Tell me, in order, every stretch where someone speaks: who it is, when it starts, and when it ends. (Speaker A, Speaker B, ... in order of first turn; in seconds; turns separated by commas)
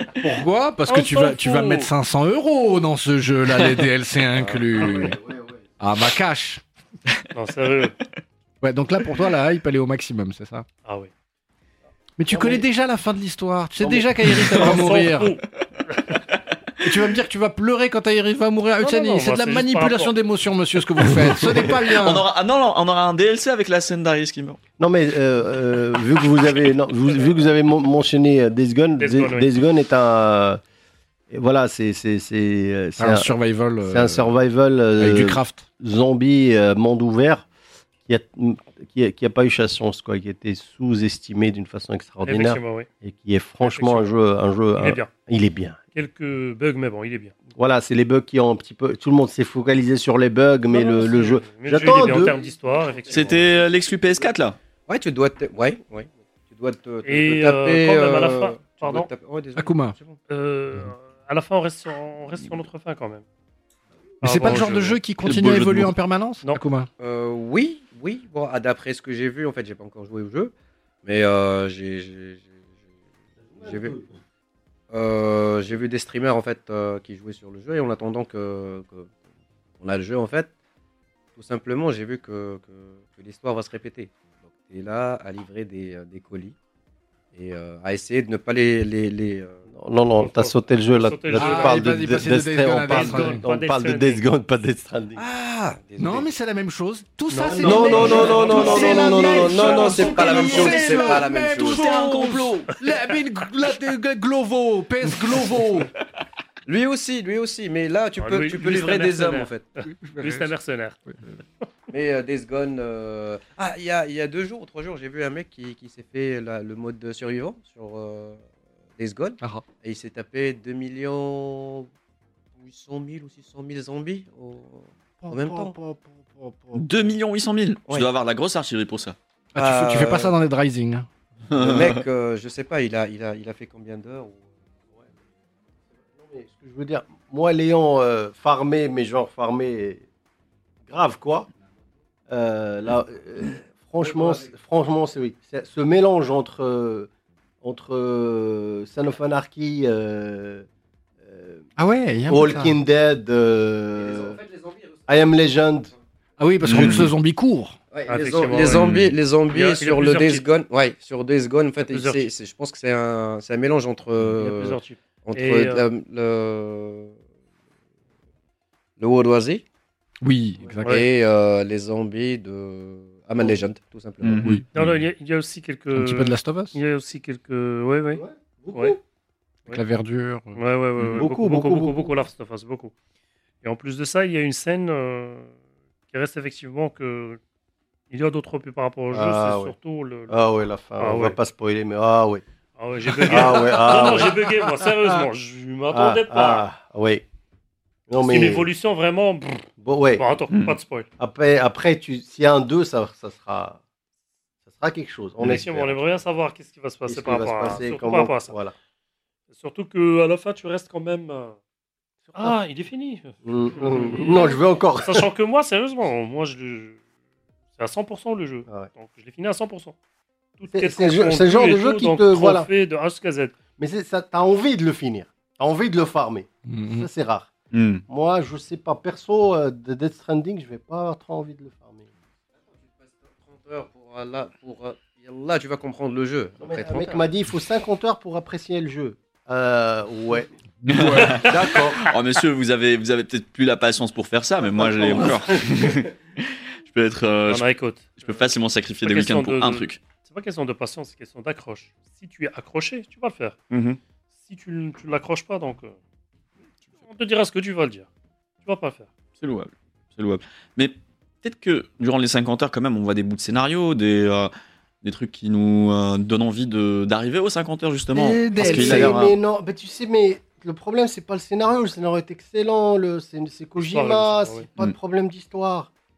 Speaker A: 0.2-5.2, Speaker B: 0.9-1.9, Speaker C: 4.4-5.0, Speaker D: 4.8-5.5, Speaker A: 5.8-6.6, Speaker B: 7.3-8.0, Speaker A: 8.6-10.7, Speaker B: 10.8-11.1, Speaker A: 12.2-15.3, Speaker D: 12.3-12.6, Speaker D: 13.8-14.1, Speaker B: 14.5-15.4, Speaker A: 16.8-22.3, Speaker B: 18.8-20.1, Speaker E: 21.9-24.6, Speaker D: 24.8-30.6, Speaker B: 29.0-29.5, Speaker D: 31.3-33.3, Speaker A: 33.0-34.3, Speaker D: 33.8-37.5, Speaker A: 35.0-35.7, Speaker D: 38.1-45.8, Speaker B: 42.2-42.9, Speaker B: 43.6-44.2, Speaker B: 44.8-45.1, Speaker B: 45.9-47.4, Speaker D: 47.6-52.4, Speaker B: 50.7-53.3, Speaker C: 52.0-53.7, Speaker E: 53.1-54.6, Speaker C: 54.9-60.2, Speaker B: 57.0-59.1, Speaker A: 59.5-60.0, Speaker B: 60.3-63.2, Speaker B: 64.2-65.0, Speaker A: 64.2-66.9, Speaker E: 65.2-65.9, Speaker C: 67.0-70.5, Speaker C: 71.0-72.5, Speaker D: 73.4-74.1, Speaker C: 73.6-74.0, Speaker C: 74.9-79.1, Speaker C: 79.8-80.5, Speaker C: 81.3-86.6, Speaker C: 87.3-89.6, Speaker D: 89.7-95.2, Speaker B: 90.2-92.0, Speaker A: 91.3-93.4, Speaker B: 92.9-94.2, Speaker C: 95.2-96.3, Speaker A: 96.0-105.9, Speaker B: 97.3-98.8, Speaker D: 97.6-99.9, Speaker C: 97.6-101.8, Speaker E: 99.8-102.7, Speaker C: 106.7-109.7, Speaker B: 108.2-111.0, Speaker A: 109.8-110.5, Speaker C: 111.9-118.4, Speaker C: 119.0-121.9, Speaker C: 122.6-125.7, Speaker A: 125.2-127.0, Speaker E: 126.7-129.2, Speaker A: 129.5-131.1, Speaker C: 129.6-130.3, Speaker E: 131.5-132.0, Speaker C: 131.6-134.4, Speaker D: 136.2-140.1, Speaker D: 140.9-141.5, Speaker D: 142.3-147.1, Speaker C: 144.0-144.5, Speaker D: 147.6-150.7, Speaker D: 151.2-151.7, Speaker A: 151.8-152.8, Speaker D: 152.3-154.4, Speaker C: 154.0-156.0, Speaker D: 155.1-155.9, Speaker A: 156.4-157.8, Speaker E: 156.6-157.1, Speaker C: 157.9-167.1, Speaker B: 158.1-158.8, Speaker E: 158.7-159.1, Speaker B: 159.5-160.5, Speaker B: 161.9-162.3, Speaker B: 164.4-165.9, Speaker C: 169.0-169.6, Speaker A: 170.2-171.0, Speaker B: 170.8-171.1, Speaker C: 170.9-174.5, Speaker E: 174.2-174.8, Speaker A: 174.4-174.7, Speaker B: 174.7-178.2, Speaker A: 175.9-176.8, Speaker D: 178.1-179.0, Speaker A: 179.7-180.6, Speaker B: 180.5-182.9, Speaker D: 181.1-182.2, Speaker B: 183.6-185.5, Speaker B: 186.1-187.4, Speaker B: 188.1-190.4, Speaker D: 189.1-189.7, Speaker D: 190.3-192.4, Speaker B: 191.0-191.4, Speaker B: 192.8-196.7, Speaker D: 193.3-194.4, Speaker D: 195.9-197.2, Speaker D: 198.1-198.7, Speaker B: 198.2-201.1, Speaker D: 199.8-200.4, Speaker E: 200.5-200.8, Speaker D: 201.2-203.8, Speaker D: 204.7-206.0, Speaker B: 205.4-208.6, Speaker D: 207.1-208.7, Speaker B: 209.5-211.6, Speaker B: 212.3-217.0, Speaker D: 213.4-215.3, Speaker B: 217.8-219.9, Speaker B: 220.6-223.6, Speaker D: 220.7-222.7, Speaker D: 223.8-227.5, Speaker A: 226.7-227.1, Speaker E: 227.7-228.0, Speaker D: 228.1-232.1, Speaker C: 232.7-237.3, Speaker D: 236.6-240.5, Speaker A: 240.8-241.5, Speaker E: 240.9-247.7, Speaker D: 241.3-242.0, Speaker B: 247.5-248.4, Speaker E: 248.2-250.0, Speaker B: 249.0-253.6, Speaker E: 253.7-254.0, Speaker B: 254.5-256.0, Speaker B: 257.0-258.1, Speaker B: 258.6-259.1, Speaker E: 259.4-264.5, Speaker E: 265.0-269.4, Speaker D: 268.2-275.9, Speaker A: 268.2-269.2, Speaker B: 273.8-274.7